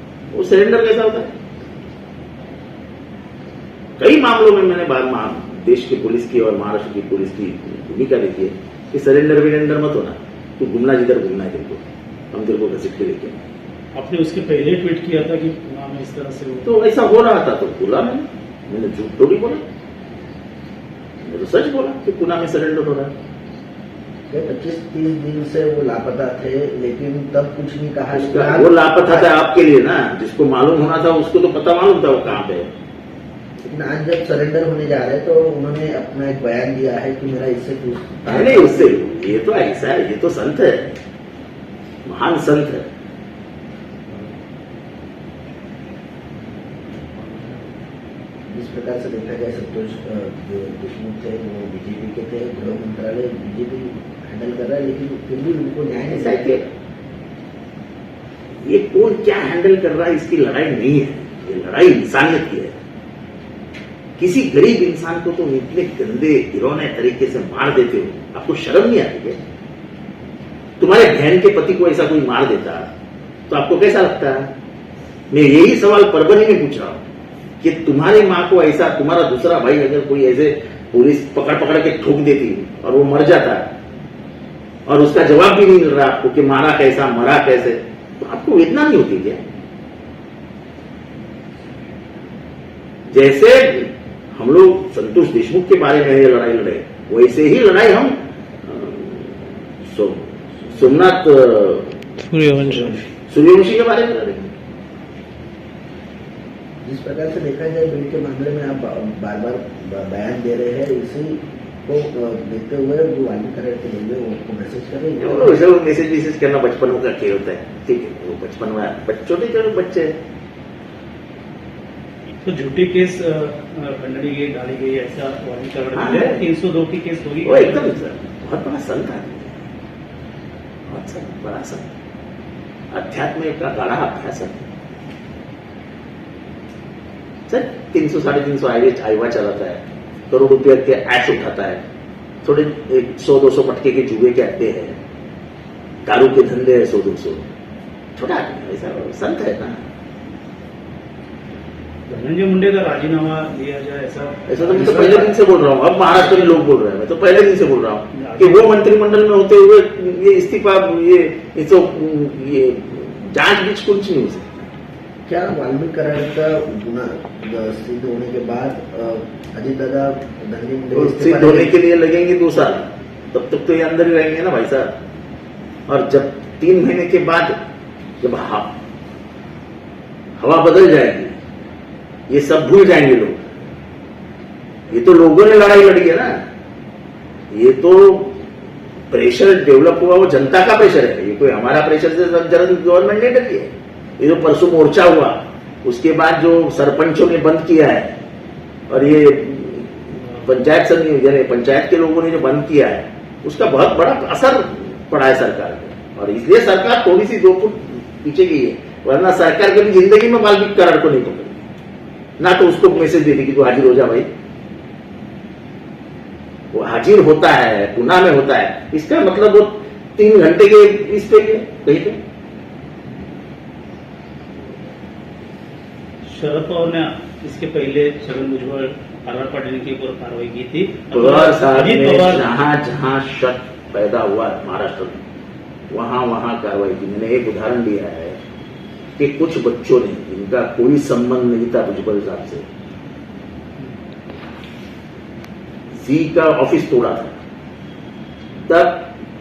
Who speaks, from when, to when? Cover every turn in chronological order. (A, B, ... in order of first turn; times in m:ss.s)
0:00.3-0:01.3 A
0:04.0-0:13.4 A
0:14.0-0:16.7 B
0:16.6-0:19.6 A
0:21.2-0:23.1 A
0:24.3-0:29.3 C
0:28.1-0:32.7 A
0:33.6-0:39.0 C
0:38.3-0:40.9 A
0:42.0-0:42.9 A
0:48.5-0:56.6 C
0:56.1-0:56.6 A
0:58.6-1:02.8 A
1:04.2-1:09.4 A
1:10.8-1:12.9 A
1:13.5-1:14.5 A
1:15.3-1:17.0 A
1:17.6-1:23.6 A
1:24.9-1:29.4 A
1:33.1-1:44.5 A
1:42.4-1:42.7 B
1:46.8-1:55.6 C
1:55.2-2:00.2 A
2:02.4-2:08.0 B
2:05.9-2:06.4 A
2:07.4-2:09.6 A
2:10.9-2:11.9 A
2:12.9-2:14.7 A
2:17.5-2:21.8 A
2:22.4-2:25.0 A
2:26.0-2:27.4 A
2:28.2-2:29.8 A
2:32.1-2:35.0 B
2:34.5-2:44.7 A
2:34.7-2:35.3 C
2:36.1-2:36.6 B
2:38.2-2:38.7 B
2:45.3-2:51.7 C
2:50.9-2:54.9 A
2:55.9-2:57.6 A
2:58.2-2:58.8 A
3:00.4-3:01.4 A
3:02.3-3:03.4 A
3:04.9-3:06.4 A
3:07.5-3:08.4 A
3:09.1-3:18.2 A
3:18.9-3:31.6 A
3:32.4-3:34.3 A
3:36.7-3:42.2 A
3:46.3-3:52.5 B
3:51.1-3:55.2 A
3:55.9-3:58.4 A
3:59.2-4:02.7 A
4:05.9-4:07.4 A
4:08.6-4:09.1 A